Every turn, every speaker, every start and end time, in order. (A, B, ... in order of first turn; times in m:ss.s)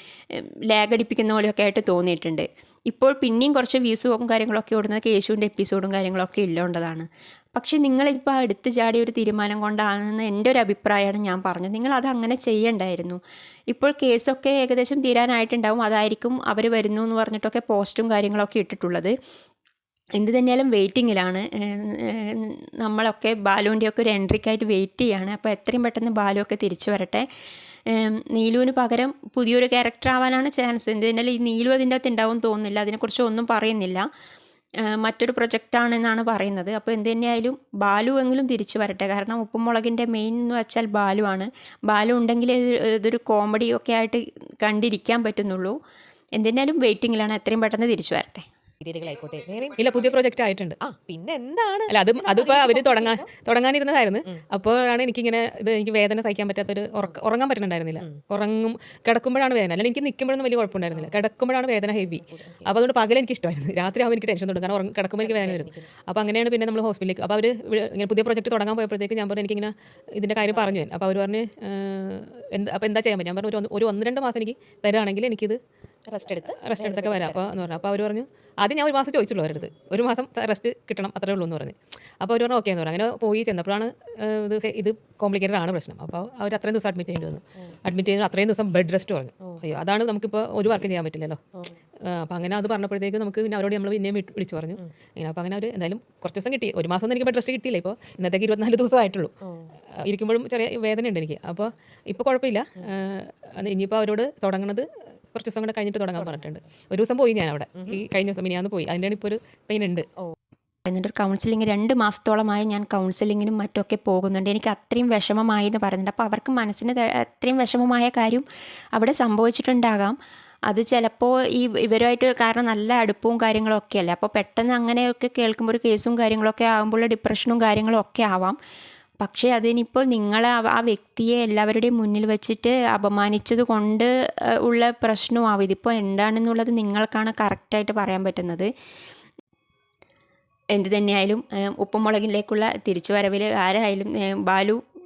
0:00.3-0:19.1 A
0:20.2-0:27.3 A
0:27.9-0:34.1 A
0:34.8-0:45.8 A
0:46.4-0:48.4 A
0:48.8-0:50.2 B
0:49.8-0:50.8 C
0:50.8-0:53.2 B
0:51.9-1:15.6 C
1:02.2-1:02.7 B
1:05.2-1:05.9 B
1:10.4-1:10.7 B
1:16.1-1:17.5 B
1:16.5-1:31.4 C
1:32.1-1:39.3 C
1:39.4-1:39.7 B
1:40.0-1:50.0 C
1:46.2-1:46.5 B
1:50.8-1:58.4 A
1:59.0-2:00.2 A
2:00.7-2:08.6 A
2:09.2-2:14.1 A
2:14.6-2:18.7 A
2:20.7-2:24.8 A